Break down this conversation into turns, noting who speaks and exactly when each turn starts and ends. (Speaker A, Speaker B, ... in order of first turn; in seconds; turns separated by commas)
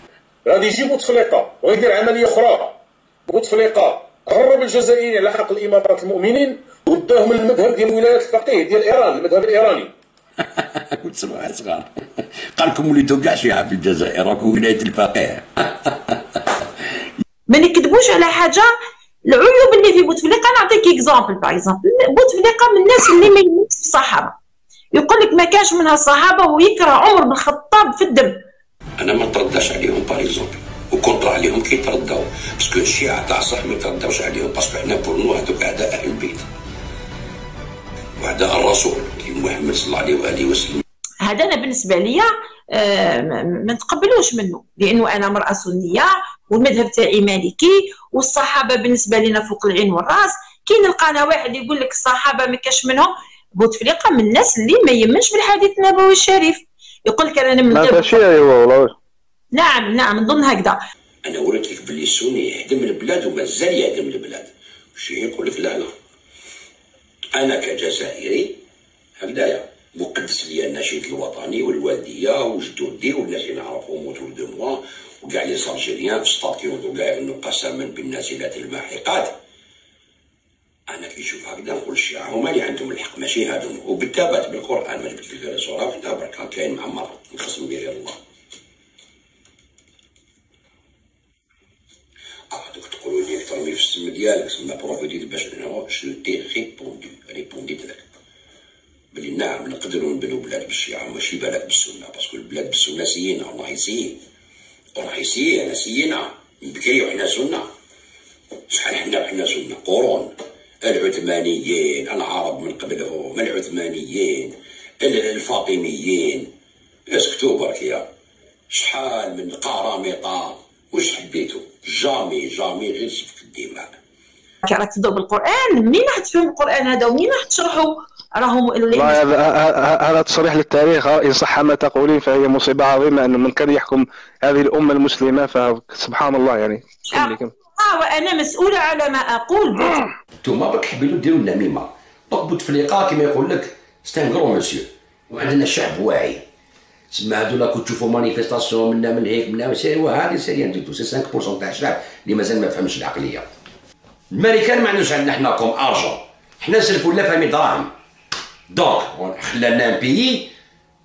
Speaker A: 0.4-9.9, Speaker B: 10.5-11.9, Speaker B: 12.5-16.1, Speaker C: 17.5-18.7, Speaker C: 19.3-24.4, Speaker C: 24.9-28.3, Speaker B: 29.0-36.5, Speaker B: 38.2-40.8, Speaker C: 41.2-58.2, Speaker D: 57.7-58.9, Speaker C: 59.5-60.8, Speaker B: 61.2-65.9, Speaker B: 67.3-68.6, Speaker B: 69.2-79.3, Speaker B: 80.9-88.2, Speaker B: 92.5-98.0, Speaker B: 99.1-104.2, Speaker B: 105.0-107.6, Speaker B: 108.7-110.3, Speaker B: 110.8-116.5, Speaker B: 117.1-118.0, Speaker B: 118.7-123.9, Speaker C: 124.6-129.2, Speaker D: 128.9-137.5, Speaker C: 137.1-139.9, Speaker B: 140.4-146.4, Speaker B: 147.1-153.5, Speaker B: 154.3-157.9, Speaker B: 158.7-160.5